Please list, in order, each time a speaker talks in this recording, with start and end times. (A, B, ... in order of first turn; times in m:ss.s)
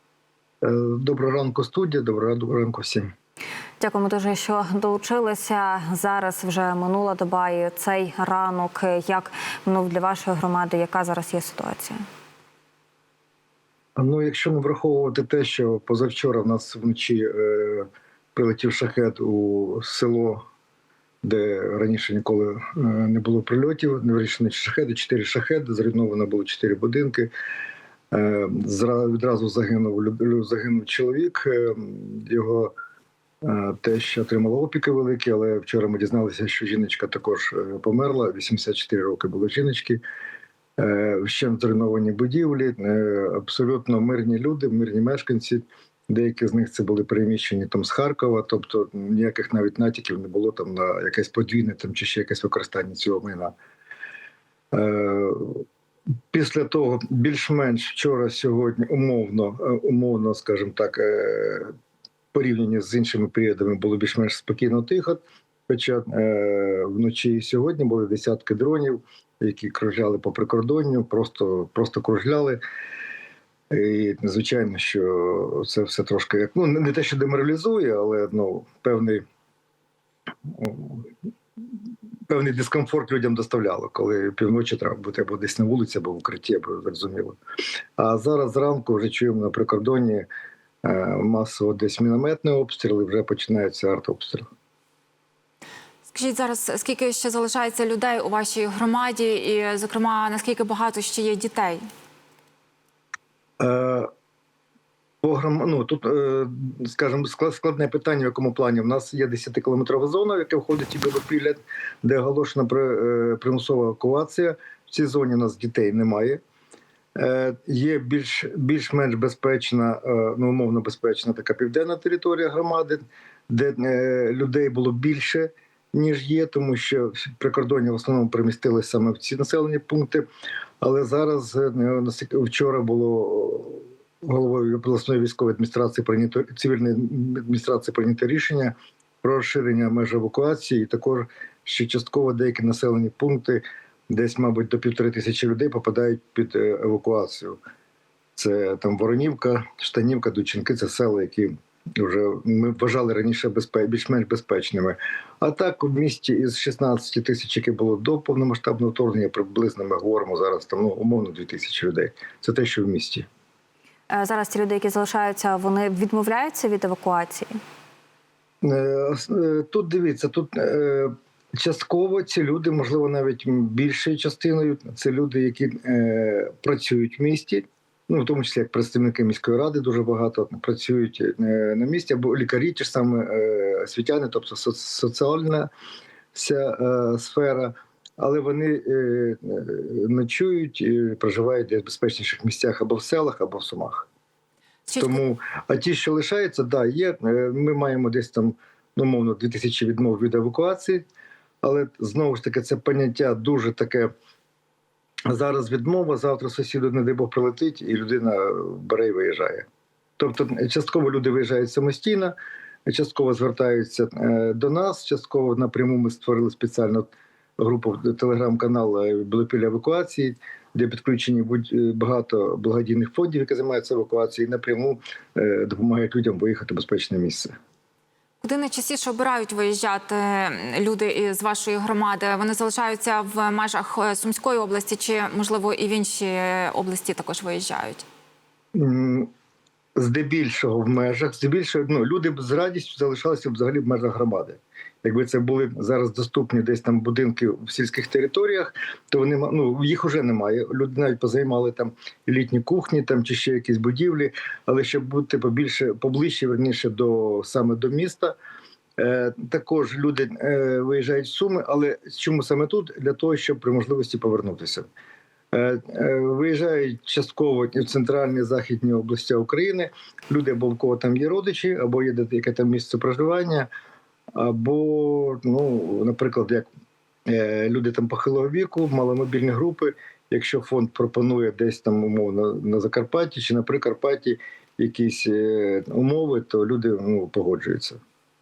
0:00.6-0:03.1 A
0:03.8-0:12.0 B
0:14.0-0:20.4 A
0:21.2-0:27.3 A
0:28.1-0:32.7 A
0:33.4-0:40.0 A
0:40.8-0:53.5 A
0:54.7-0:55.6 A
0:56.3-1:01.7 A
1:02.3-1:12.6 A
1:13.7-1:19.2 A
1:20.5-1:21.1 A
1:22.3-1:27.4 A
1:28.0-1:30.3 A
1:30.8-1:34.5 A
1:36.1-1:41.8 C
1:43.6-1:44.1 A
1:45.2-1:56.4 A
1:57.2-2:10.3 A
2:10.8-2:27.6 A
2:28.4-2:43.3 A
2:44.1-2:47.6 B
2:48.6-3:05.7 A
3:06.3-3:14.1 A
3:14.9-3:15.2 C
3:15.0-3:21.1 A
3:21.6-3:24.1 A
3:25.3-3:29.7 A
3:30.2-3:32.4 A
3:32.9-3:47.5 A
3:48.4-3:58.0 C
3:58.7-3:59.3 A
4:00.0-4:18.4 A
4:19.0-4:24.9 A
4:25.5-4:33.7 A
4:34.4-4:36.7 A
4:37.3-4:48.0 A